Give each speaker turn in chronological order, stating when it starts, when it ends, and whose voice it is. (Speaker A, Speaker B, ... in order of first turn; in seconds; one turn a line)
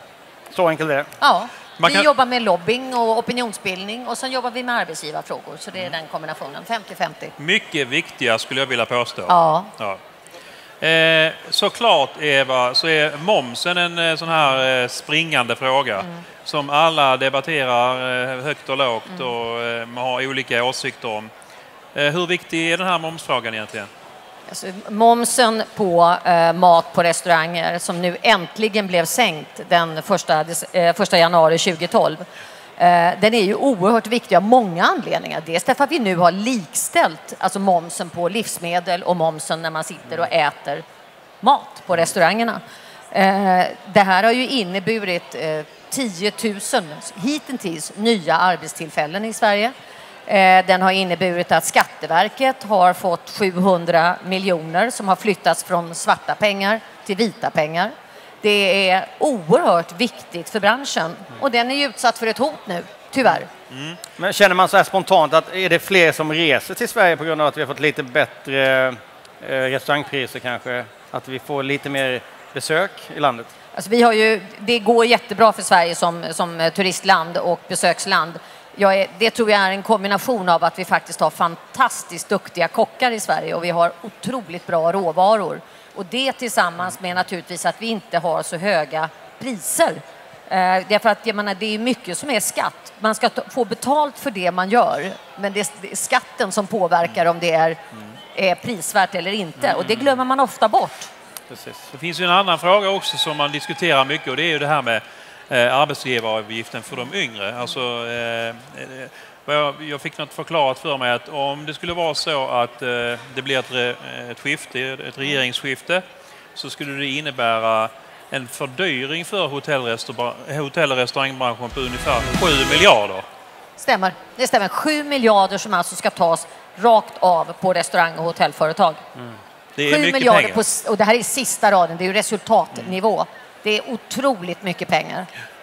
Speaker A: 0.5-1.1
Speaker B: 1.2-7.3
Speaker C: 1.8-2.1
Speaker C: 7.4-10.0
Speaker B: 9.3-9.7
Speaker C: 10.8-21.3
Speaker C: 21.9-23.9
Speaker B: 24.5-32.2
Speaker B: 32.8-40.8
Speaker B: 41.4-49.7
Speaker B: 50.2-63.5
Speaker C: 63.7-64.0
Speaker A: 64.2-73.5
Speaker B: 73.7-97.8
Speaker B: 98.3-101.1
Speaker A: 101.5-101.9
Speaker C: 101.9-116.0
Speaker C: 116.5-123.2
Speaker B: 123.8-129.0
Speaker C: 129.8-130.6
Speaker B: 129.8-135.3